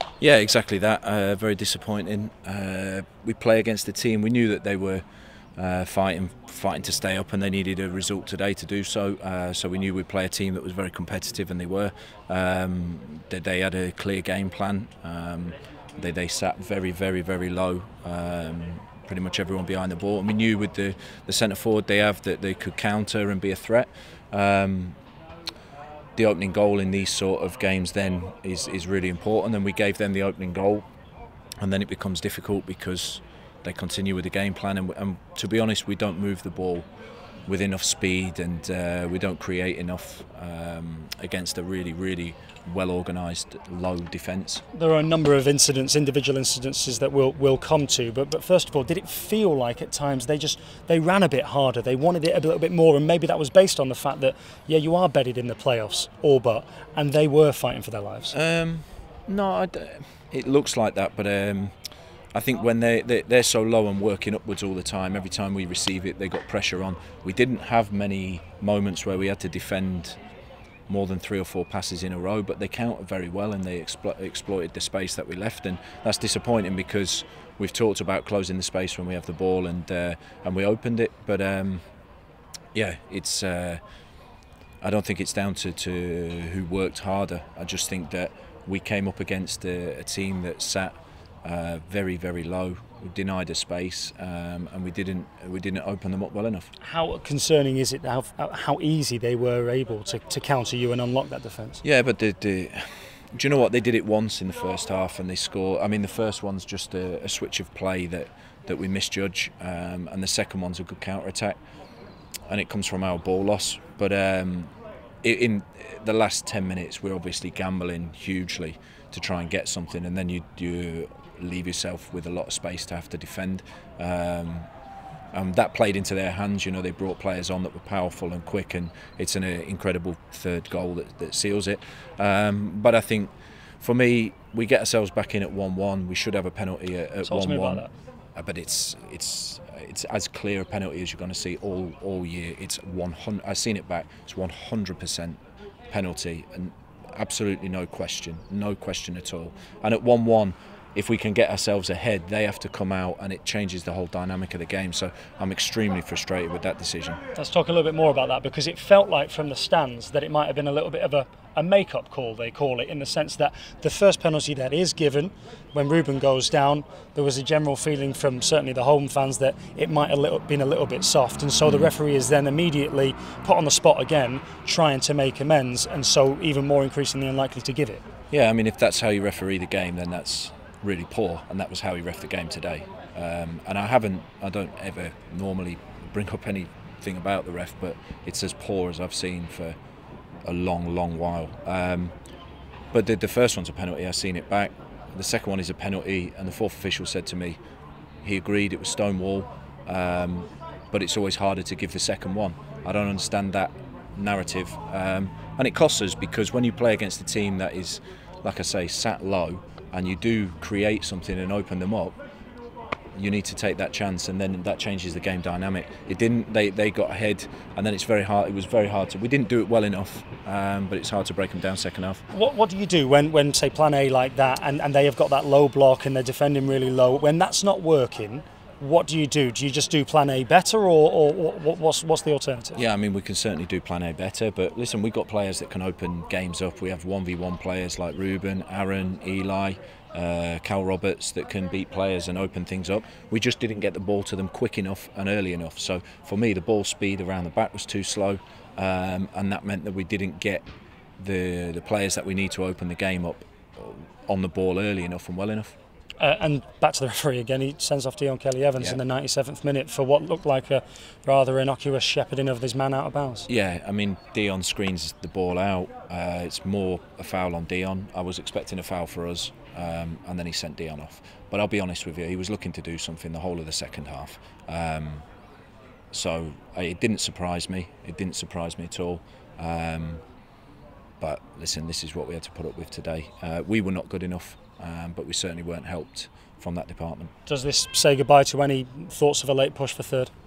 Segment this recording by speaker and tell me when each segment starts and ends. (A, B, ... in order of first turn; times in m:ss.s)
0:00.2-0:05.0 A
0:05.6-0:25.0 A
0:26.2-0:30.8 A
0:31.6-0:36.8 A
0:37.5-0:44.6 A
0:44.7-0:58.3 B
0:58.3-1:01.7 A
1:02.3-1:10.2 A
1:10.9-1:21.8 A
1:22.7-1:23.8 A
1:24.8-1:36.7 A
1:36.8-1:41.8 B
1:41.8-1:51.6 A
1:52.5-1:54.7 A
1:55.2-2:04.7 A
2:05.3-2:17.8 A
2:17.2-2:17.9 B
2:18.4-2:25.4 A
2:25.9-2:37.2 A
2:37.3-2:58.0 B
2:51.6-2:51.9 A
2:58.3-3:09.8 A
3:10.4-3:12.1 A
3:12.9-3:17.6 A
3:18.2-3:32.2 A
3:33.1-3:42.2 A
3:42.3-3:52.8 B
3:52.8-4:10.6 A
4:11.2-4:15.7 A
4:16.2-4:23.5 B
4:23.5-4:35.2 A
4:36.1-4:40.2 A
4:41.2-4:47.3 A
4:47.4-4:50.3 B